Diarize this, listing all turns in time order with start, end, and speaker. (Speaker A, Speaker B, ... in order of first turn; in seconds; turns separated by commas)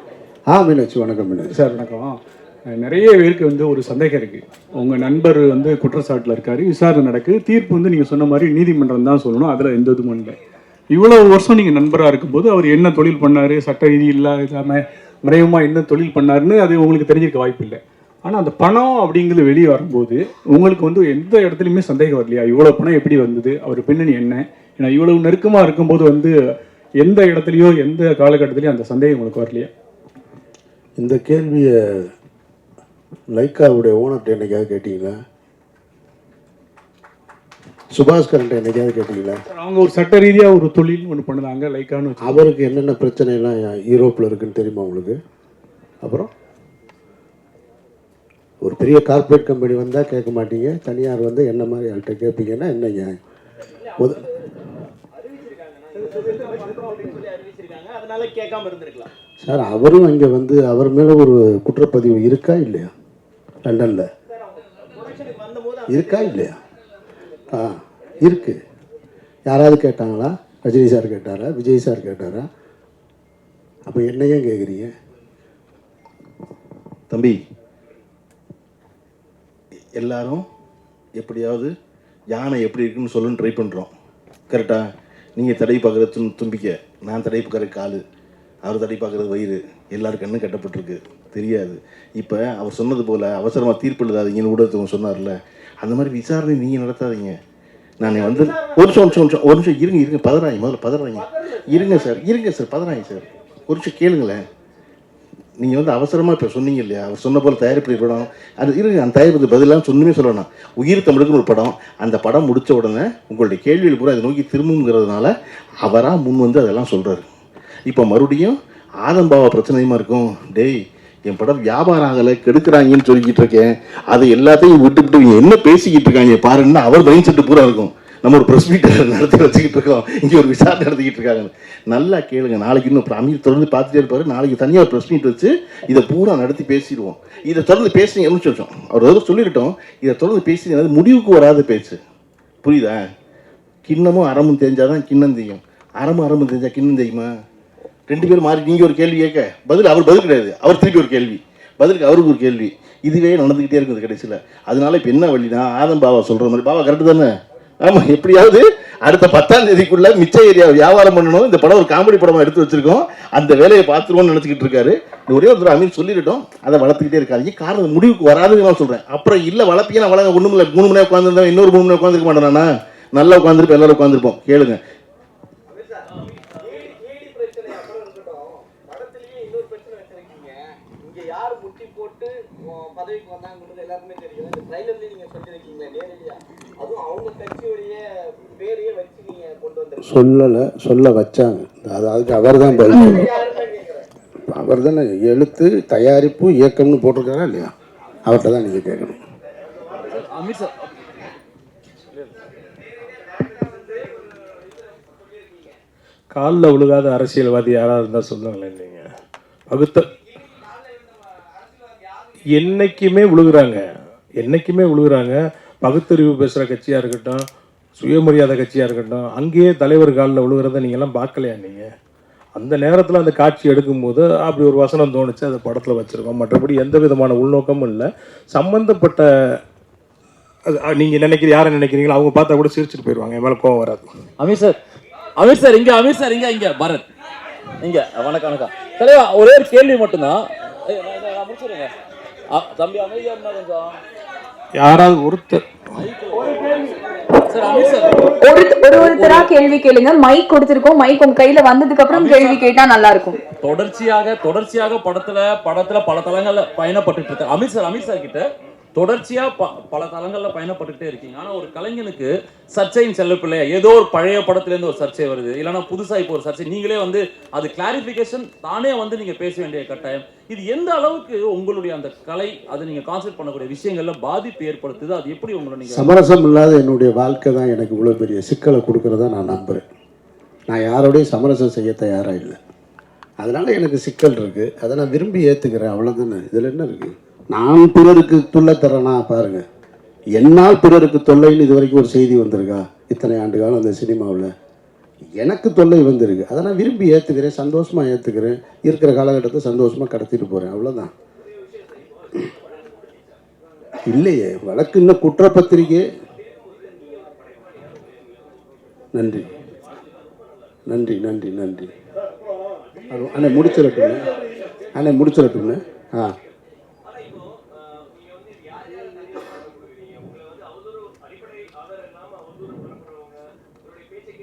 Speaker A: 0.5-1.6, Speaker B: 1.5-10.4, Speaker B: 10.9-29.7, Speaker A: 31.0-32.1, Speaker A: 33.3-35.1, Speaker A: 37.9-39.4, Speaker B: 39.5-42.5, Speaker A: 42.2-45.2, Speaker A: 46.0-46.3, Speaker A: 48.6-53.2, Speaker A: 54.0-54.2, Speaker C: 55.4-59.0, Speaker A: 59.4-62.9, Speaker A: 63.6-64.0, Speaker C: 65.0-66.2, Speaker A: 65.9-66.5, Speaker A: 67.5-68.6, Speaker A: 69.5-72.5, Speaker A: 73.8-74.9, Speaker D: 77.1-77.4, Speaker D: 79.9-80.5, Speaker D: 81.2-81.7, Speaker D: 82.3-83.9, Speaker D: 84.5-84.8, Speaker D: 85.3-88.0, Speaker D: 88.6-97.3, Speaker D: 98.0-104.4, Speaker D: 105.6-115.3, Speaker D: 115.8-117.2, Speaker D: 117.9-142.0, Speaker D: 142.6-143.0, Speaker D: 143.8-147.3, Speaker D: 148.1-157.3, Speaker D: 157.8-174.8, Speaker C: 176.7-188.0, Speaker C: 188.6-190.0, Speaker A: 190.0-193.4, Speaker C: 193.6-194.0, Speaker A: 194.5-197.7, Speaker A: 198.2-199.2, Speaker E: 200.1-200.8, Speaker F: 206.3-209.1, Speaker F: 209.7-210.1, Speaker F: 212.5-213.8, Speaker F: 214.4-217.4, Speaker F: 218.0-221.9, Speaker F: 222.6-229.6, Speaker F: 230.7-234.1, Speaker E: 234.4-234.8, Speaker E: 235.4-237.0, Speaker E: 237.8-241.9, Speaker E: 242.5-244.0, Speaker F: 244.7-245.6, Speaker E: 246.0-248.4, Speaker G: 248.4-253.4, Speaker E: 248.9-249.5, Speaker E: 252.1-252.6, Speaker E: 253.6-276.1, Speaker A: 275.9-279.8, Speaker A: 280.7-282.6, Speaker A: 283.4-289.6, Speaker A: 290.3-294.5, Speaker A: 295.4-301.1, Speaker A: 304.0-306.0, Speaker A: 309.1-309.5, Speaker A: 310.9-311.9, Speaker A: 313.1-314.3, Speaker A: 314.9-316.4